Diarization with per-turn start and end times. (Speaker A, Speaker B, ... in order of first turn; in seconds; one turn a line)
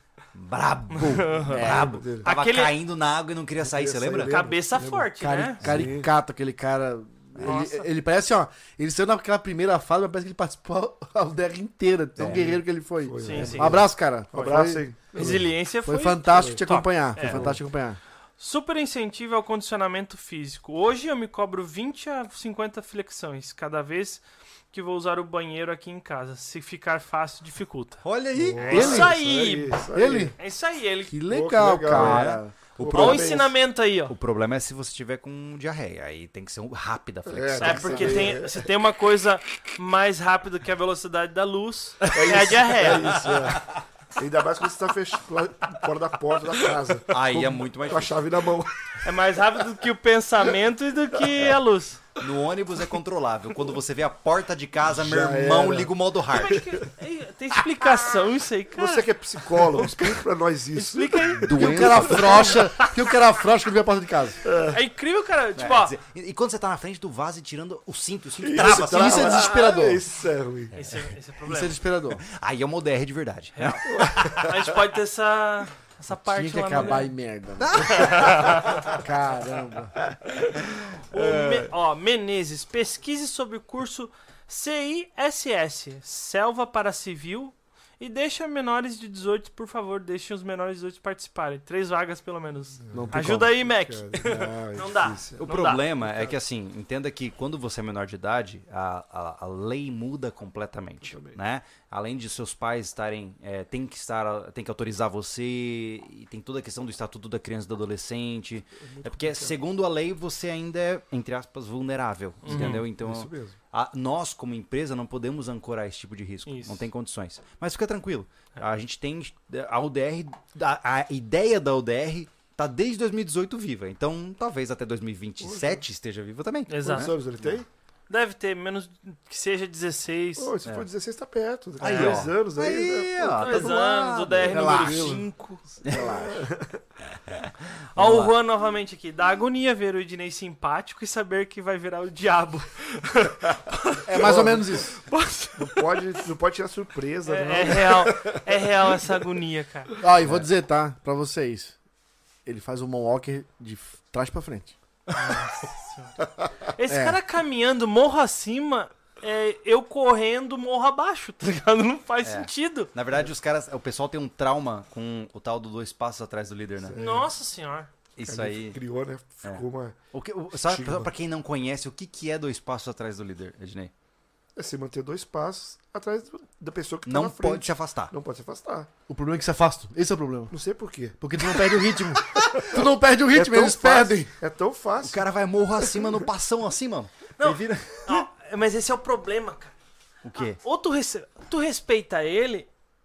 Speaker A: 0.3-4.4
Speaker B: 0.9-2.7
Speaker C: 1.3-2.3
Speaker D: 1.5-2.0
Speaker C: 3.6-5.1
Speaker B: 4.3-5.6
Speaker D: 5.2-18.0
Speaker C: 5.6-6.1
Speaker A: 5.6-5.9
Speaker B: 7.4-7.9
Speaker A: 12.2-12.5
Speaker C: 12.3-15.5
Speaker B: 13.2-13.8
Speaker B: 15.1-17.5
Speaker C: 16.3-16.6
Speaker C: 17.2-17.6
Speaker B: 18.4-28.0
Speaker A: 28.0-29.1
Speaker C: 28.4-30.4
Speaker B: 28.6-29.8
Speaker D: 28.7-29.1
Speaker D: 29.9-30.4
Speaker B: 30.4-31.2
Speaker D: 31.1-32.5
Speaker C: 31.3-33.5
Speaker A: 31.9-33.4
Speaker B: 32.9-34.1
Speaker A: 34.1-38.4
Speaker C: 37.3-38.7
Speaker B: 37.6-43.3
Speaker C: 42.1-48.9
Speaker A: 43.2-43.6
Speaker A: 47.1-48.2
Speaker B: 49.0-52.1
Speaker A: 52.2-56.6
Speaker C: 54.9-56.8
Speaker B: 56.3-60.2
Speaker C: 58.7-62.5
Speaker B: 60.7-63.0
Speaker A: 61.4-62.6
Speaker D: 61.5-64.4
Speaker C: 64.4-64.8
Speaker B: 64.7-66.0
Speaker A: 65.6-69.5
Speaker C: 68.4-70.7
Speaker D: 68.6-70.0
Speaker A: 70.7-71.1
Speaker B: 70.7-71.8
Speaker D: 71.5-72.2
Speaker A: 72.2-74.4
Speaker B: 73.6-77.1
Speaker C: 73.9-74.7
Speaker D: 76.1-80.0
Speaker A: 77.6-78.9
Speaker B: 77.9-78.8
Speaker A: 80.5-81.7
Speaker B: 81.1-95.8
Speaker C: 92.8-95.5
Speaker D: 92.9-93.5
Speaker A: 95.4-127.6
Speaker C: 96.0-96.3
Speaker C: 101.0-101.4
Speaker C: 108.8-109.6
Speaker B: 112.4-112.9
Speaker C: 112.5-113.6
Speaker B: 116.5-116.8
Speaker C: 125.4-125.8
Speaker B: 126.7-127.1
Speaker C: 126.8-127.7
Speaker B: 128.1-130.5
Speaker C: 130.4-134.6
Speaker A: 131.8-135.1
Speaker B: 131.8-132.3
Speaker B: 133.4-135.8
Speaker D: 134.5-135.3
Speaker D: 135.8-136.5
Speaker C: 135.9-136.8
Speaker A: 137.3-138.3
Speaker B: 138.0-144.3
Speaker D: 144.1-145.0
Speaker C: 144.2-144.8
Speaker B: 145.0-146.0
Speaker C: 145.6-148.9
Speaker B: 147.2-150.0
Speaker D: 150.0-151.8
Speaker D: 152.4-154.8
Speaker B: 155.1-156.1
Speaker B: 156.7-162.9
Speaker D: 156.9-157.2
Speaker A: 162.2-167.0
Speaker C: 166.8-167.3
Speaker B: 167.0-167.9
Speaker A: 168.2-168.8
Speaker C: 168.3-170.0
Speaker A: 169.4-173.9
Speaker C: 170.6-171.1
Speaker C: 174.6-178.9
Speaker A: 177.1-178.1
Speaker D: 179.1-180.5
Speaker C: 180.5-185.3
Speaker D: 181.2-184.3
Speaker A: 185.0-188.3
Speaker C: 185.8-186.1
Speaker B: 187.4-189.7
Speaker A: 190.2-190.6
Speaker B: 190.3-192.7